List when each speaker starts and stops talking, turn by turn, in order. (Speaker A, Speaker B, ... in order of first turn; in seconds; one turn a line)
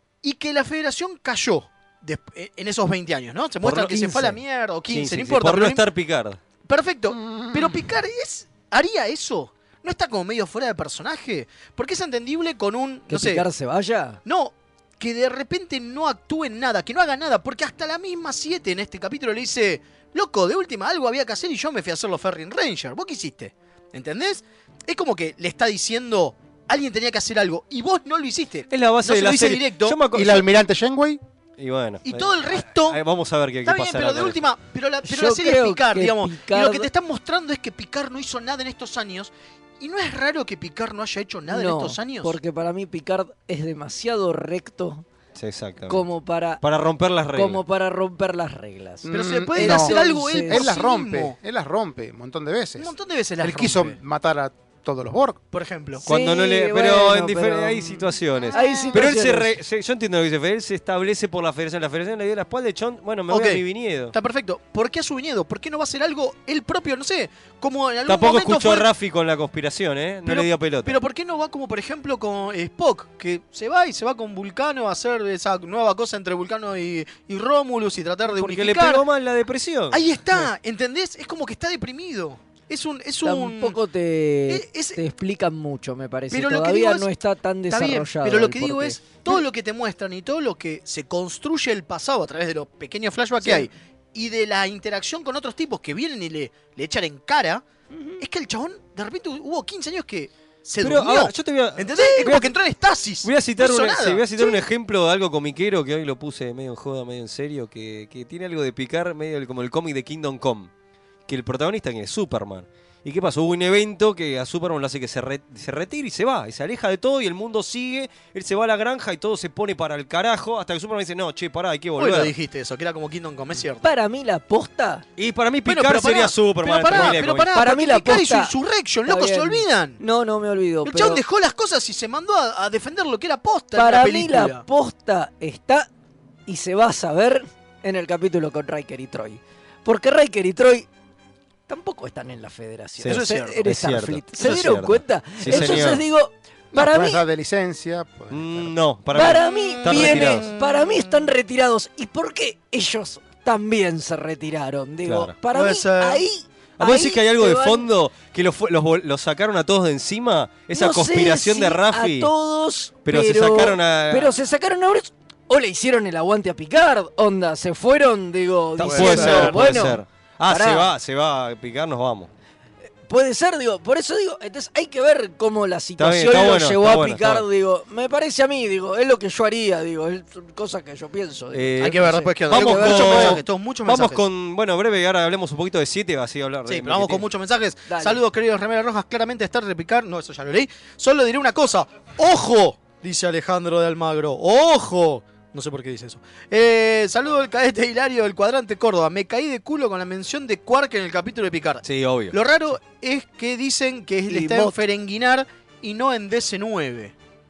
Speaker A: 0.2-5.8
Speaker B: 3.6-6.4
Speaker A: 6.7-13.4
Speaker C: 7.1-7.8
Speaker D: 13.1-14.2
Speaker A: 14.2-30.0
Speaker B: 28.7-30.5
Speaker C: 30.1-31.2
Speaker B: 31.6-34.4
Speaker A: 32.0-33.0
Speaker A: 33.6-42.4
Speaker D: 35.0-36.9
Speaker D: 41.5-45.0
Speaker B: 45.4-46.0
Speaker D: 45.9-46.6
Speaker B: 46.6-47.6
Speaker D: 47.3-50.7
Speaker C: 49.0-55.4
Speaker A: 49.1-51.4
Speaker A: 52.8-54.0
Speaker A: 55.5-56.0
Speaker B: 56.0-64.1
Speaker D: 56.1-59.6
Speaker A: 58.5-59.0
Speaker A: 63.3-68.9
Speaker B: 68.1-71.0
Speaker A: 70.3-79.0
Speaker B: 78.3-80.0
Speaker A: 79.9-83.8
Speaker D: 83.2-89.4
Speaker A: 84.5-85.0
Speaker A: 86.3-87.1
Speaker A: 87.7-97.6
Speaker D: 97.9-98.2
Speaker A: 98.2-104.6
Speaker B: 100.8-102.5
Speaker B: 103.2-110.7
Speaker B: 111.3-122.3
Speaker A: 122.0-123.9
Speaker D: 123.8-125.0
Speaker B: 125.2-127.5
Speaker A: 125.7-130.0
Speaker D: 126.9-128.5
Speaker D: 129.1-131.2
Speaker A: 130.8-134.6
Speaker D: 133.8-135.9
Speaker D: 136.5-140.9
Speaker D: 141.7-147.2
Speaker B: 143.0-146.0
Speaker A: 143.1-143.7
Speaker A: 145.5-145.8
Speaker C: 146.7-148.8
Speaker B: 148.3-150.5
Speaker D: 149.1-157.9
Speaker A: 149.4-151.0
Speaker B: 155.0-155.3
Speaker A: 155.5-156.2
Speaker B: 156.8-162.3
Speaker D: 160.7-170.9
Speaker B: 163.0-164.3
Speaker B: 168.8-172.3
Speaker A: 168.8-169.6
Speaker D: 173.1-183.4
Speaker B: 176.0-177.4
Speaker B: 181.5-187.2
Speaker A: 181.8-184.2
Speaker A: 186.7-207.1
Speaker D: 187.9-188.2
Speaker B: 201.8-202.4
Speaker D: 204.3-204.7